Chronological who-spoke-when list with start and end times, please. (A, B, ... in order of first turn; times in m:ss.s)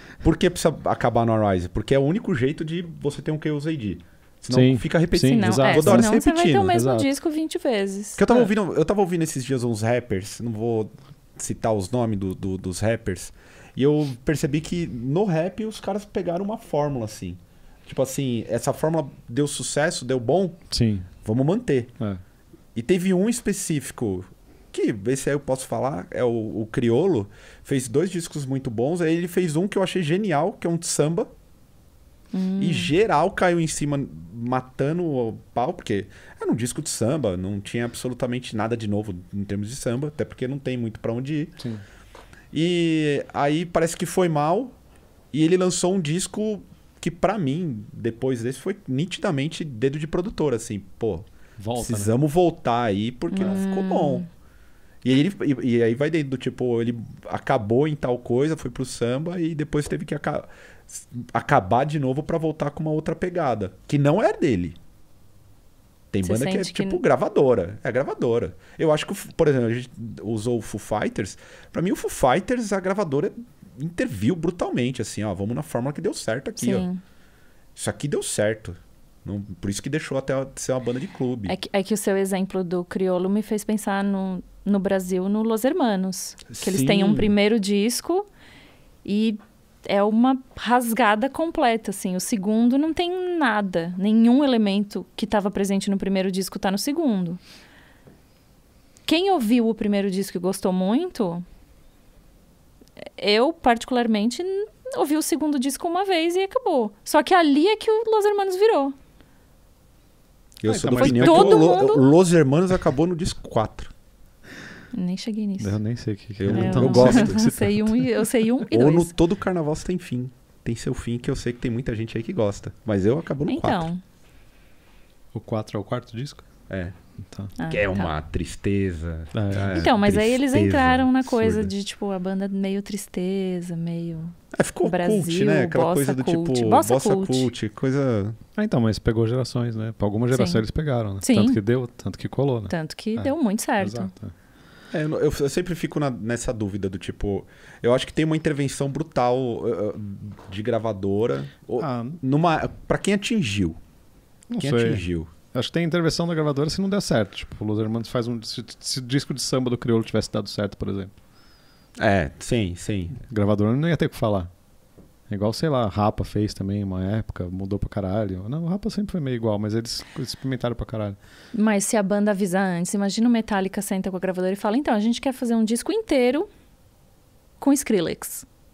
0:00.2-0:06.8 A
0:04.5-0:06.1 B
0:05.2-0:08.5 C
0:06.7-0:07.1 B
0:08.2-0:20.6 A
0:20.7-0:21.1 B
0:21.2-0:21.9 A
0:22.7-0:31.3 A
0:32.3-0:32.9 C
0:32.6-0:41.5 A
0:42.5-0:44.7 A
0:45.3-0:54.2 A
0:51.6-0:52.1 B
0:53.3-0:54.3 C
0:55.0-1:04.8 A
1:06.1-1:16.9 A
1:06.2-1:07.0 C
1:16.6-1:17.0 C
1:17.8-1:21.5 A
1:21.5-1:28.3 C
1:26.5-1:27.3 A
1:29.0-1:37.4 C
1:39.0-1:41.4 C
1:43.2-1:48.9 C
1:50.6-1:53.9 A
1:50.6-1:51.7 B
1:51.0-1:52.1 C
1:54.9-1:55.8 C
1:55.6-1:58.0 B
1:56.4-1:57.4 A
1:56.5-1:59.1 C
1:58.7-2:03.9 A
2:03.5-2:04.0 C
2:05.3-2:06.4 B
2:06.7-2:06.9 A
2:07.2-2:07.5 B
2:07.6-2:08.1 C
2:07.7-2:11.7 A
2:09.3-2:09.8 B
2:09.7-2:17.5 C
2:14.5-2:18.4 A
2:18.6-2:24.3 B
2:20.3-2:20.6 C
2:21.2-2:21.6 C
2:22.7-2:24.1 C
2:24.9-2:33.8 A
2:31.8-2:32.2 B
2:34.5-2:41.1 B
2:34.6-2:35.3 A
2:42.0-2:43.2 A
2:43.2-2:44.5 B
2:45.3-2:51.2 B
2:51.5-2:56.5 C
2:57.6-2:58.4 C